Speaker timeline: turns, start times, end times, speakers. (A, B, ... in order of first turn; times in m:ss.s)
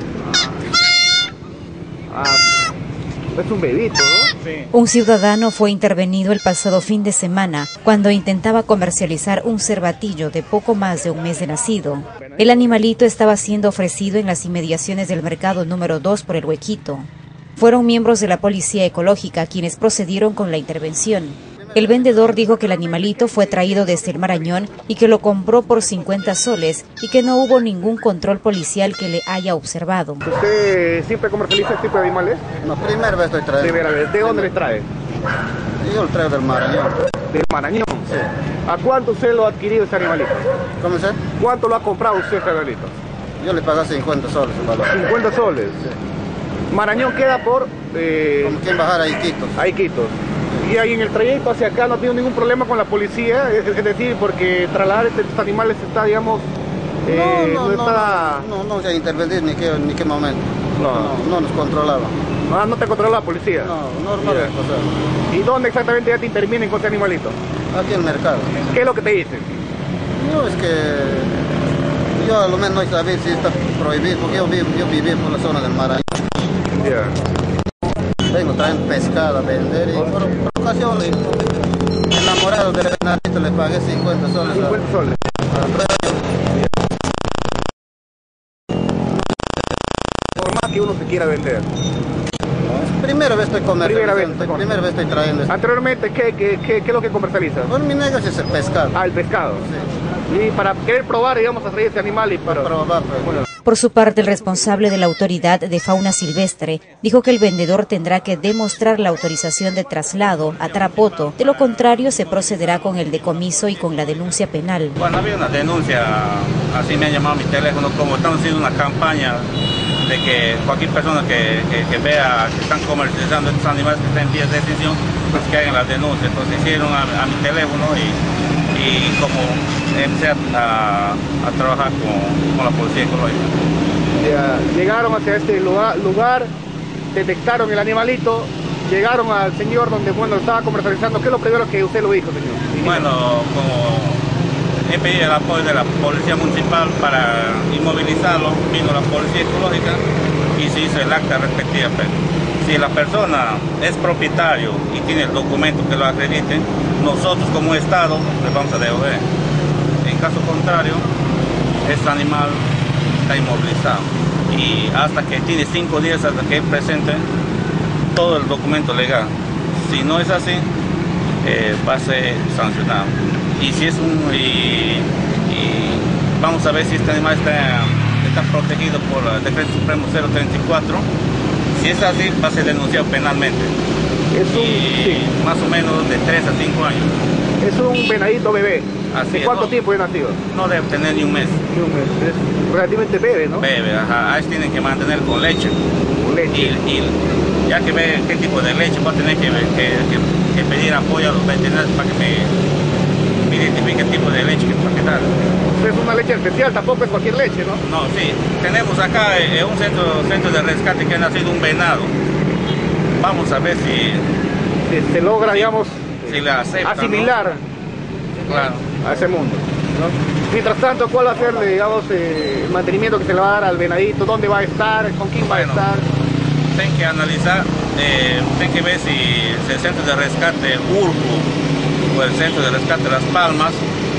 0:00.3-0:00.6 A
0:02.1-0:02.5 A
0:03.4-0:04.3 A
0:04.7-0:30.3 B
0:12.2-0:12.7 A
0:30.2-0:32.4 A
0:32.6-0:34.5 C
0:33.6-0:34.9 A
0:35.8-0:37.0 C
0:37.3-0:38.1 A
0:38.7-0:40.5 A
0:40.8-0:41.2 C
0:41.3-0:43.0 A
0:43.4-0:45.0 C
0:44.9-0:45.8 A
0:46.7-0:48.6 A
0:48.4-0:49.6 C
0:49.6-0:56.5 A
0:57.0-0:58.5 A
0:57.1-1:02.2 C
1:00.8-1:01.1 A
1:02.5-1:03.7 A
1:03.6-1:04.9 C
1:04.2-1:04.5 A
1:05.3-1:07.4 A
1:07.7-1:08.6 C
1:08.6-1:09.6 A
1:10.2-1:11.4 C
1:12.2-1:16.1 C
1:16.7-1:17.2 A
1:18.3-1:21.5 C
1:22.1-1:24.8 C
1:24.5-1:25.2 A
1:25.5-1:26.2 C
1:30.4-1:31.7 A
1:32.7-1:35.5 C
1:33.8-1:34.8 A
1:35.5-1:37.7 A
1:37.7-1:39.0 C
1:39.0-1:39.6 A
1:40.3-1:42.7 A
1:42.4-1:43.3 C
1:43.6-1:55.0 B
1:50.8-1:52.2 D
1:55.0-1:59.5 D
2:00.0-2:08.2 D
2:08.7-2:13.6 D
2:14.2-2:16.5 A
2:17.1-2:23.1 A
2:22.8-2:24.3 D
2:24.9-2:30.0 D
2:30.6-2:39.3 D
2:40.0-2:41.1 D
2:41.8-2:42.6 D
2:43.3-2:47.3 D
2:48.1-2:50.7 D
2:51.4-3:01.1 D
3:01.7-3:03.7 D
3:04.3-3:05.3 A
3:04.5-3:07.2 D
3:07.6-3:10.4 A
3:09.1-3:09.8 D
3:10.5-3:11.6 D
3:11.7-3:13.7 A
3:13.6-3:15.8 D
3:16.2-3:16.8 A
3:16.4-3:22.5 D
3:23.4-3:25.3 D
3:25.8-3:27.8 A
3:27.8-3:32.1 D
3:33.2-3:34.3 D
3:34.9-3:37.6 A
3:35.4-3:37.4 D
3:38.4-3:38.9 D
3:38.9-3:39.6 A
3:40.5-3:46.1 A
3:45.4-3:45.9 D
3:46.7-3:51.5 D
3:52.1-3:53.8 D